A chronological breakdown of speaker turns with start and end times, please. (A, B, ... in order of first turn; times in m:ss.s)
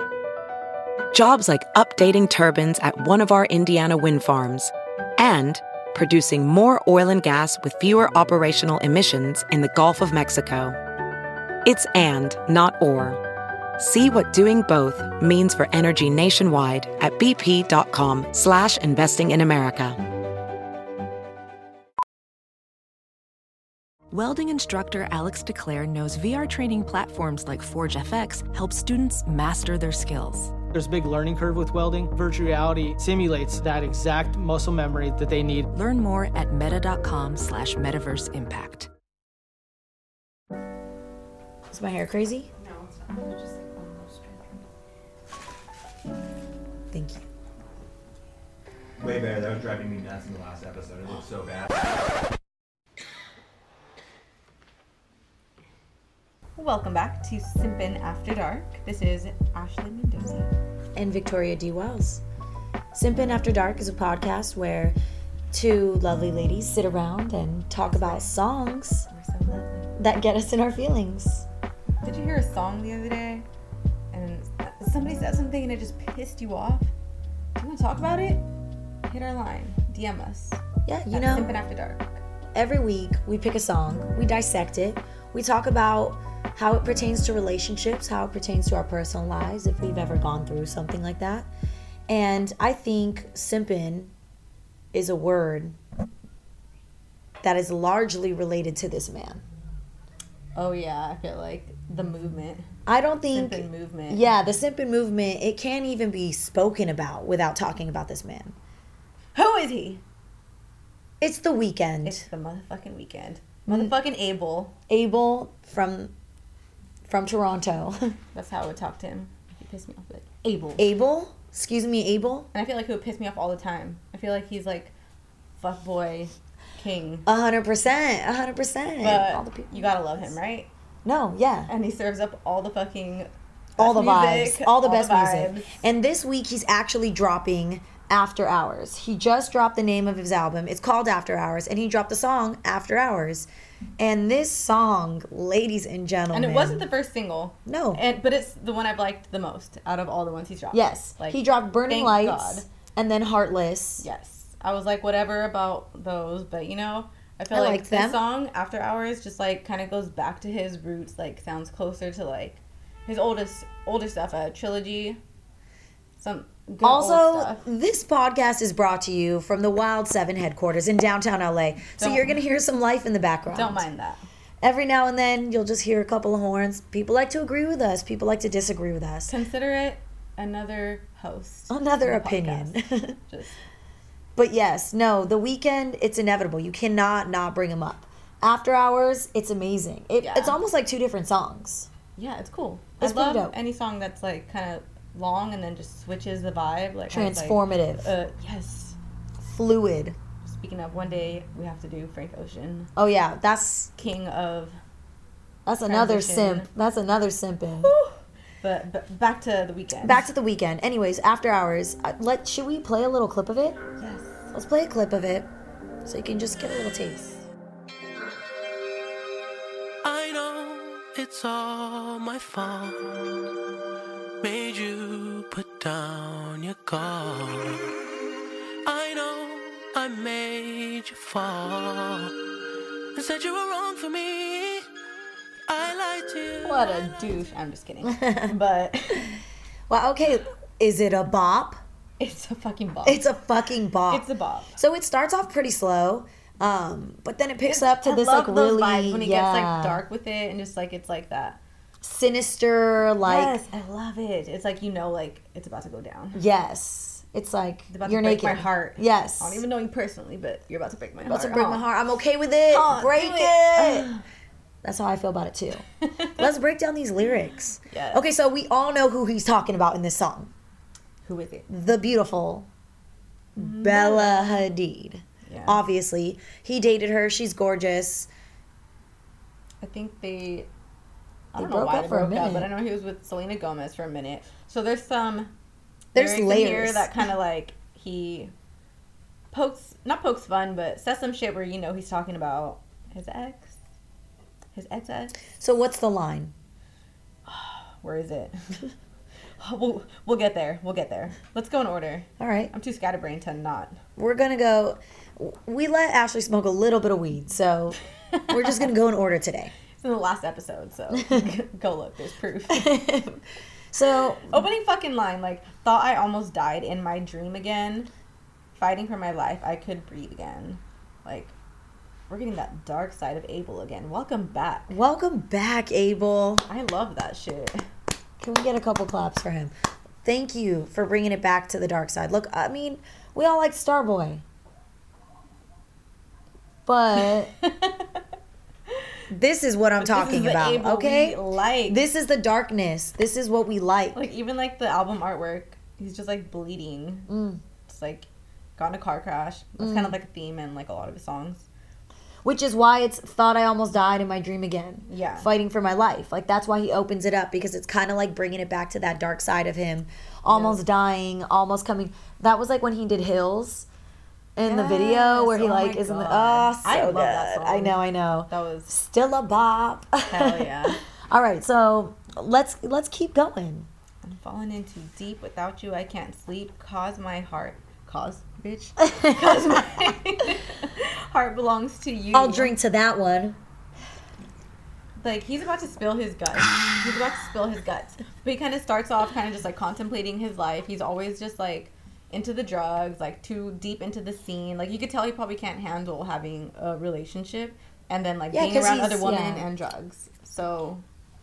0:01.1-0:10.8 A
0:11.6-0:13.2 A
0:13.8-0:20.0 A
0:24.1-0:30.5 B
0:30.7-0:35.7 C
0:35.7-0:38.9 B
0:41.7-0:42.5 D
0:42.6-0:44.6 E
0:46.9-0:47.2 D
0:49.0-0:51.7 F
0:56.6-1:00.5 E
1:01.0-1:02.2 D
1:02.9-1:05.0 D
1:05.5-1:09.1 D
1:07.8-1:08.3 E
1:09.1-1:09.9 E
1:10.0-1:11.5 D
1:12.0-1:13.5 E
1:14.1-1:16.9 E
1:17.6-1:18.5 E
1:19.1-1:22.2 E
1:20.9-1:21.6 D
1:22.5-1:31.5 D
1:32.1-1:34.1 D
1:34.9-1:35.8 D
1:37.4-1:39.4 D
1:40.6-1:42.7 E
1:42.9-1:48.6 D
1:43.3-1:44.4 E
1:49.4-1:50.0 E
1:51.2-1:52.2 D
1:52.0-1:54.7 E
1:53.7-1:53.9 D
1:54.9-1:56.1 D
1:57.1-1:58.1 D
1:58.3-2:00.9 E
2:00.8-2:02.5 D
2:02.5-2:04.9 E
2:05.6-2:07.3 E
2:07.3-2:10.3 D
2:09.0-2:10.7 E
2:11.0-2:11.7 D
2:11.7-2:15.8 E
2:13.8-2:26.9 D
2:26.3-2:32.6 E
2:27.7-2:28.0 D
2:30.7-2:34.0 D
2:34.0-2:45.2 E
2:37.5-2:38.2 D
2:46.2-2:47.6 E
2:46.8-2:53.9 D
2:52.0-2:52.4 E
2:53.5-2:54.2 E
2:54.6-2:59.4 D
2:59.3-3:03.5 E
3:01.7-3:03.2 D
3:04.4-3:11.9 D
3:10.2-3:10.6 E
3:12.2-3:19.0 E
3:13.0-3:13.6 D
3:17.1-3:18.1 D
3:19.4-3:20.2 D
3:20.4-3:22.9 E
3:23.0-3:23.9 D
3:24.0-3:24.8 E
3:25.7-3:27.9 D
3:25.8-3:26.7 E
3:27.8-3:30.3 E
3:30.0-3:33.8 D
3:34.0-3:34.5 E
3:34.5-3:35.5 D
3:36.0-3:37.4 D
3:40.0-3:43.4 G
3:44.4-3:47.9 G
3:48.9-3:52.4 G
3:53.2-3:54.9 G
3:55.7-3:57.3 G
3:56.6-3:59.4 E
3:58.1-3:58.5 D
3:59.9-4:01.8 D
4:02.2-4:03.3 E
4:03.0-4:04.3 D
4:04.1-4:04.8 E
4:04.8-4:10.0 D
4:07.6-4:11.6 E
4:12.0-4:13.6 D
4:13.2-4:16.4 E
4:16.3-4:19.6 D
4:17.9-4:21.9 E
4:21.3-4:24.1 D
4:22.7-4:24.2 E
4:24.8-4:25.8 D
4:26.0-4:26.3 E
4:26.4-4:30.5 D
4:27.9-4:28.2 E
4:31.2-4:31.7 E
4:31.7-4:32.7 D
4:33.6-4:38.3 D
4:33.6-4:34.7 E
4:35.4-4:35.8 E
4:39.8-4:40.7 E
4:41.5-4:45.5 E
4:41.6-4:42.7 D
4:46.1-4:47.1 D
4:46.2-4:48.5 E
4:49.5-4:53.8 E
4:54.7-4:55.4 E
4:55.6-4:56.5 D
4:57.5-4:58.6 E
4:59.6-5:04.0 E
5:02.4-5:02.7 D
5:04.2-5:08.0 D
5:08.3-5:08.8 E
5:08.5-5:09.7 D
5:10.0-5:12.9 E
5:11.2-5:11.5 D
5:12.7-5:13.4 D
5:13.9-5:14.6 D
5:14.5-5:18.1 E
5:18.8-5:21.5 E
5:22.3-5:25.0 E
5:24.9-5:26.7 D
5:26.7-5:27.8 E
5:28.4-5:29.7 D
5:30.2-5:34.4 D
5:36.9-5:37.5 D
5:37.2-5:38.2 E
5:39.3-5:44.3 D
5:40.0-5:42.0 E
5:44.1-5:47.3 E
5:47.3-5:47.6 D
5:47.9-5:51.7 E
5:49.8-5:50.2 D
5:52.4-6:03.9 D
5:55.1-5:55.5 E
6:00.5-6:00.8 E
6:04.6-6:13.9 D
6:04.6-6:08.9 E
6:10.3-6:11.0 E
6:14.2-6:22.8 E
6:19.0-6:19.7 D
6:22.3-6:23.6 D
6:25.2-6:41.0 E
6:38.5-6:39.7 D